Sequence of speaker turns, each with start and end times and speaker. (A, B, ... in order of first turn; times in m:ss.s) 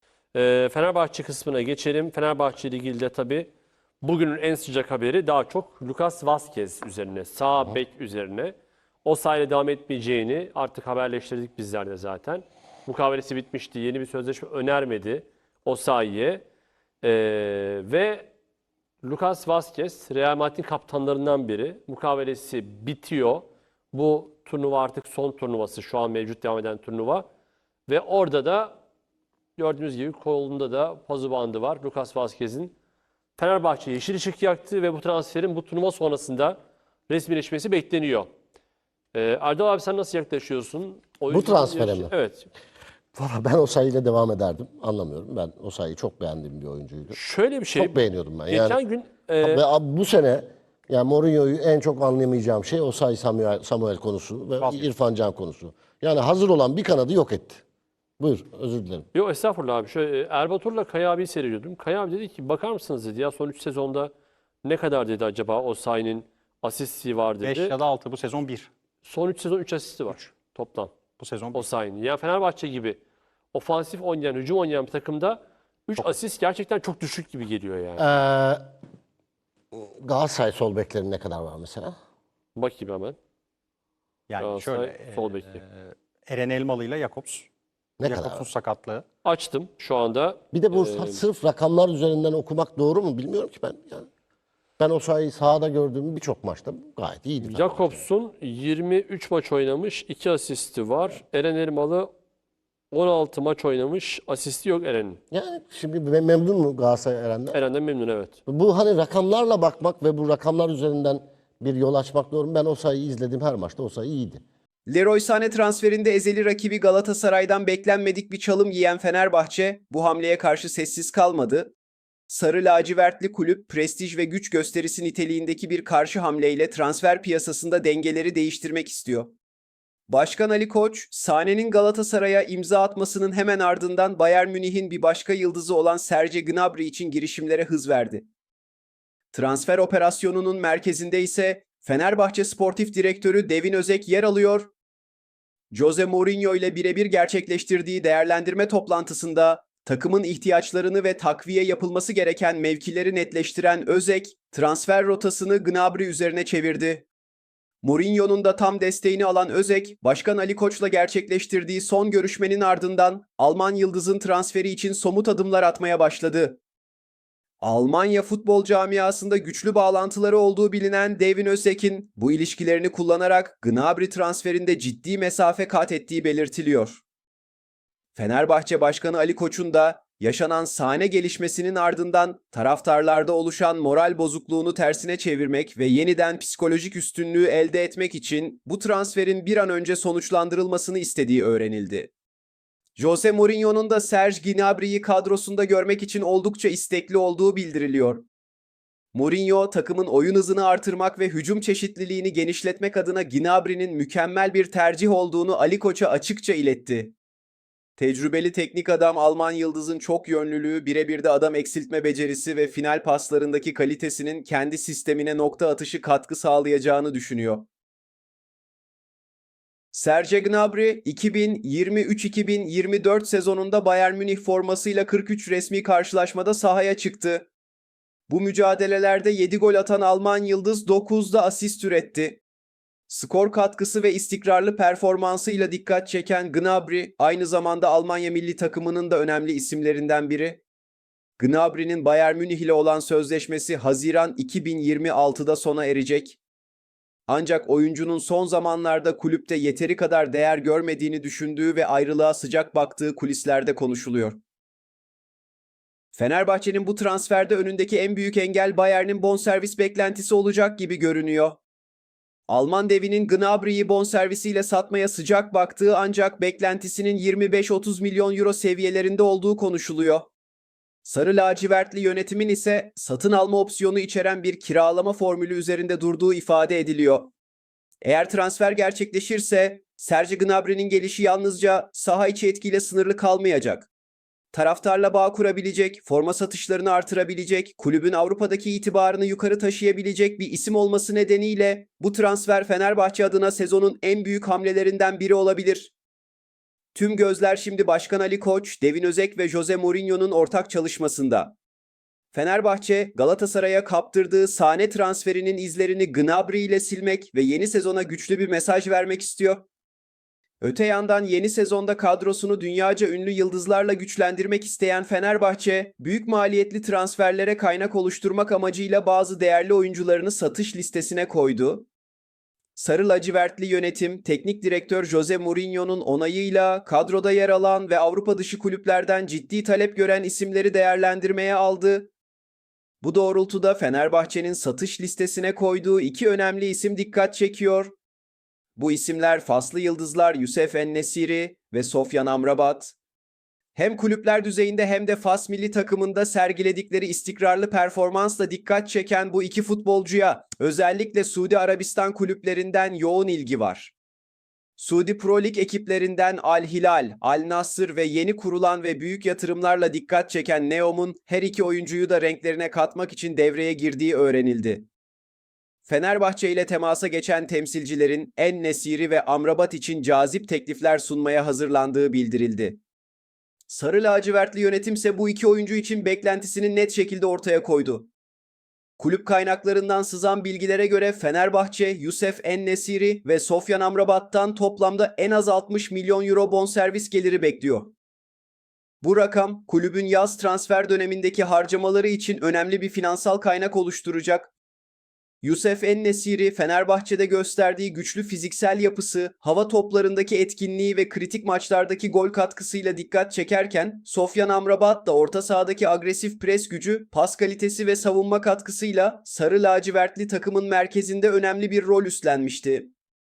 0:00.3-0:03.5 A
0:04.0-0:16.4 A
0:17.0-0:18.3 A
0:19.0-0:27.3 A
0:27.9-0:28.8 A
0:29.6-0:32.7 A
0:33.4-0:36.6 A
0:37.1-0:38.3 A
0:39.1-0:42.5 A
0:41.3-0:42.1 B
0:43.1-0:47.2 B
0:47.1-0:49.6 A
0:47.7-0:48.8 B
0:49.4-0:57.6 B
0:54.6-0:54.9 C
0:58.2-0:59.1 B
0:59.1-1:04.1 A
1:04.6-1:07.8 A
1:07.4-1:08.7 C
1:09.0-1:11.0 A
1:11.2-1:11.7 C
1:11.5-1:13.0 A
1:13.5-1:18.0 A
1:18.0-1:18.6 B
1:19.7-1:22.0 B
1:22.6-1:23.2 A
1:24.3-1:27.5 C
1:24.4-1:25.6 A
1:28.0-1:28.5 B
1:28.0-1:29.0 C
1:29.2-1:31.2 A
1:30.5-1:34.1 B
1:34.8-1:38.0 B
1:37.4-1:42.1 A
1:42.9-1:45.2 A
1:45.3-1:47.6 B
1:47.5-1:48.4 A
1:48.5-1:54.4 B
1:54.9-2:01.7 D
2:02.3-2:09.3 D
2:10.1-2:18.3 D
2:19.3-2:24.7 D
2:25.7-2:37.1 D
2:37.8-2:46.6 D
2:47.6-2:57.0 D
2:58.2-3:12.1 D
3:13.0-3:18.3 D
3:19.1-3:27.2 D
3:28.0-3:37.7 D
3:39.9-3:47.5 D
3:48.3-3:52.4 D
3:53.1-4:00.6 D
4:01.4-4:06.4 D
4:07.3-4:14.4 D
4:16.2-4:21.6 D
4:22.5-4:30.3 D
4:31.0-4:37.3 D
4:38.0-4:43.9 D
4:44.5-4:55.9 D
4:56.9-5:01.6 D
5:02.3-5:09.6 D
5:10.6-5:21.9 D
5:22.8-5:32.1 D
5:33.0-5:37.9 D
5:38.8-5:43.0 D
5:43.8-5:53.9 D
5:54.8-6:04.9 D
6:05.9-6:12.8 D
6:13.7-6:18.1 D
6:19.0-6:27.9 D
6:29.0-6:34.5 D
6:35.4-6:52.9 D